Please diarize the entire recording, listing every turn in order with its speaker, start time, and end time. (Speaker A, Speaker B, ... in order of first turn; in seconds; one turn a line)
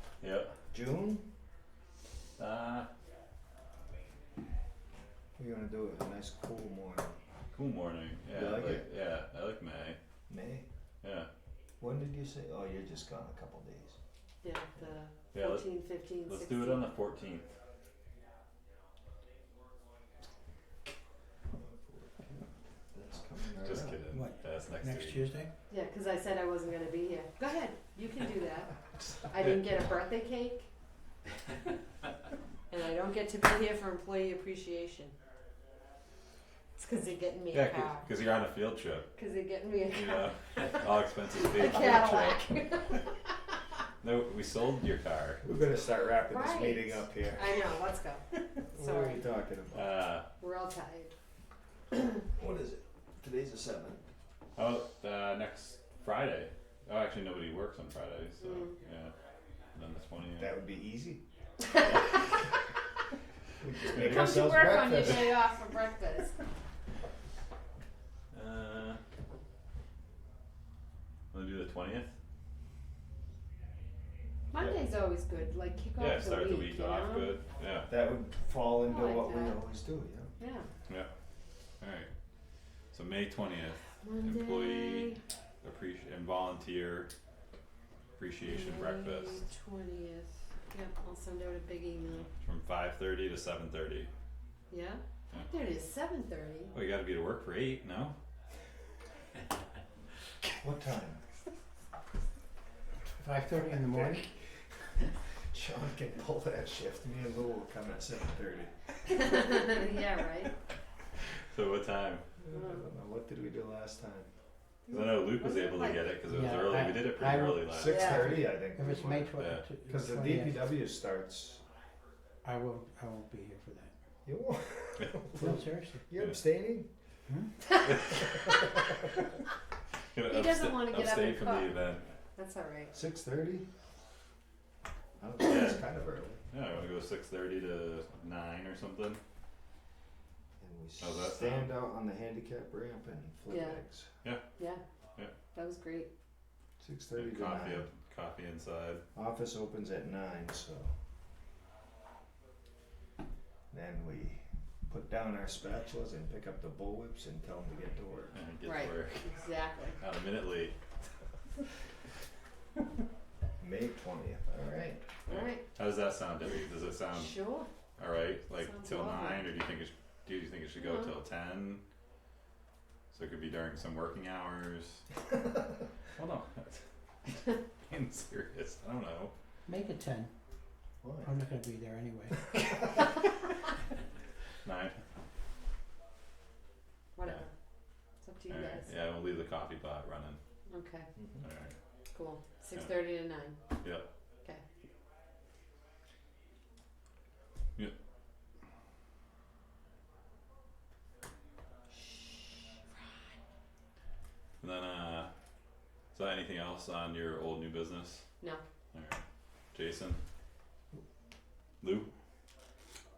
Speaker A: 0.2-0.5
Speaker B: 0.7-1.2
Speaker A: 2.4-2.9
Speaker B: 5.4-7.2
Speaker A: 7.5-10.0
Speaker B: 8.3-8.8
Speaker B: 10.3-10.7
Speaker A: 11.0-11.3
Speaker B: 11.8-13.9
Speaker C: 14.4-16.9
Speaker A: 15.3-15.7
Speaker A: 16.2-17.5
Speaker B: 21.6-22.4
Speaker B: 22.9-24.0
Speaker A: 23.6-25.3
Speaker D: 24.1-25.5
Speaker C: 25.7-28.7
Speaker C: 29.2-30.7
Speaker C: 32.7-35.1
Speaker C: 36.8-38.1
Speaker A: 37.5-39.1
Speaker C: 39.1-40.6
Speaker A: 39.9-42.4
Speaker C: 41.3-43.3
Speaker A: 44.0-45.4
Speaker B: 45.4-47.6
Speaker C: 46.3-48.2
Speaker B: 48.7-49.9
Speaker C: 48.7-49.2
Speaker A: 49.7-50.2
Speaker C: 50.4-51.1
Speaker B: 52.3-54.0
Speaker A: 54.6-59.1
Speaker C: 58.4-58.7
Speaker A: 59.8-60.5
Speaker B: 60.4-61.2
Speaker B: 63.6-65.4
Speaker C: 63.9-66.3
Speaker A: 68.3-69.0
Speaker A: 71.3-72.1
Speaker C: 74.5-77.3
Speaker A: 76.0-77.9
Speaker B: 77.9-80.3
Speaker C: 78.8-79.6
Speaker C: 80.4-80.7
Speaker A: 81.8-82.1
Speaker A: 82.9-87.1
Speaker C: 84.0-85.2
Speaker A: 88.2-89.4
Speaker C: 88.4-92.3
Speaker A: 92.3-94.1
Speaker C: 94.7-96.7
Speaker A: 96.7-98.1
Speaker B: 100.6-101.2
Speaker D: 103.1-104.2
Speaker B: 103.5-104.4
Speaker B: 105.5-108.7
Speaker C: 109.2-110.5
Speaker A: 111.5-112.2
Speaker B: 112.4-114.3
Speaker C: 112.5-112.8
Speaker C: 114.9-116.8
Speaker A: 114.9-118.2
Speaker D: 116.3-120.6
Speaker B: 117.7-119.3
Speaker C: 117.8-118.4
Speaker A: 119.4-119.6
Speaker B: 119.8-121.6
Speaker D: 122.4-123.9
Speaker B: 124.2-126.9
Speaker D: 125.3-126.0
Speaker D: 127.3-127.5
Speaker A: 127.8-128.4
Speaker A: 130.1-132.0
Speaker C: 130.3-131.7
Speaker C: 132.3-132.9
Speaker B: 132.9-133.7
Speaker B: 135.2-136.4
Speaker A: 135.4-135.8
Speaker A: 136.5-139.2
Speaker B: 140.6-144.1
Speaker A: 141.0-141.7
Speaker C: 143.5-143.8
Speaker C: 145.5-146.1
Speaker B: 146.8-147.9
Speaker A: 147.2-149.0
Speaker B: 149.1-150.9
Speaker B: 153.7-158.3
Speaker A: 158.3-159.3
Speaker C: 158.6-160.0
Speaker A: 160.0-160.8
Speaker B: 163.6-165.1
Speaker C: 165.3-165.6
Speaker A: 165.3-167.4
Speaker C: 167.1-167.7
Speaker A: 168.0-171.8
Speaker C: 168.6-169.4
Speaker C: 170.8-171.1
Speaker A: 173.1-175.0
Speaker A: 176.2-179.3
Speaker D: 179.7-180.3
Speaker B: 181.0-181.3
Speaker D: 181.2-183.0
Speaker A: 184.6-185.0
Speaker C: 187.2-187.5
Speaker C: 188.2-188.9
Speaker A: 188.5-190.4
Speaker C: 190.7-191.1
Speaker A: 191.4-191.7
Speaker C: 192.1-193.6
Speaker A: 193.8-194.1
Speaker C: 201.9-203.0
Speaker A: 204.6-205.3
Speaker A: 206.1-208.2
Speaker A: 208.9-209.2
Speaker A: 209.7-210.2
Speaker A: 211.8-212.1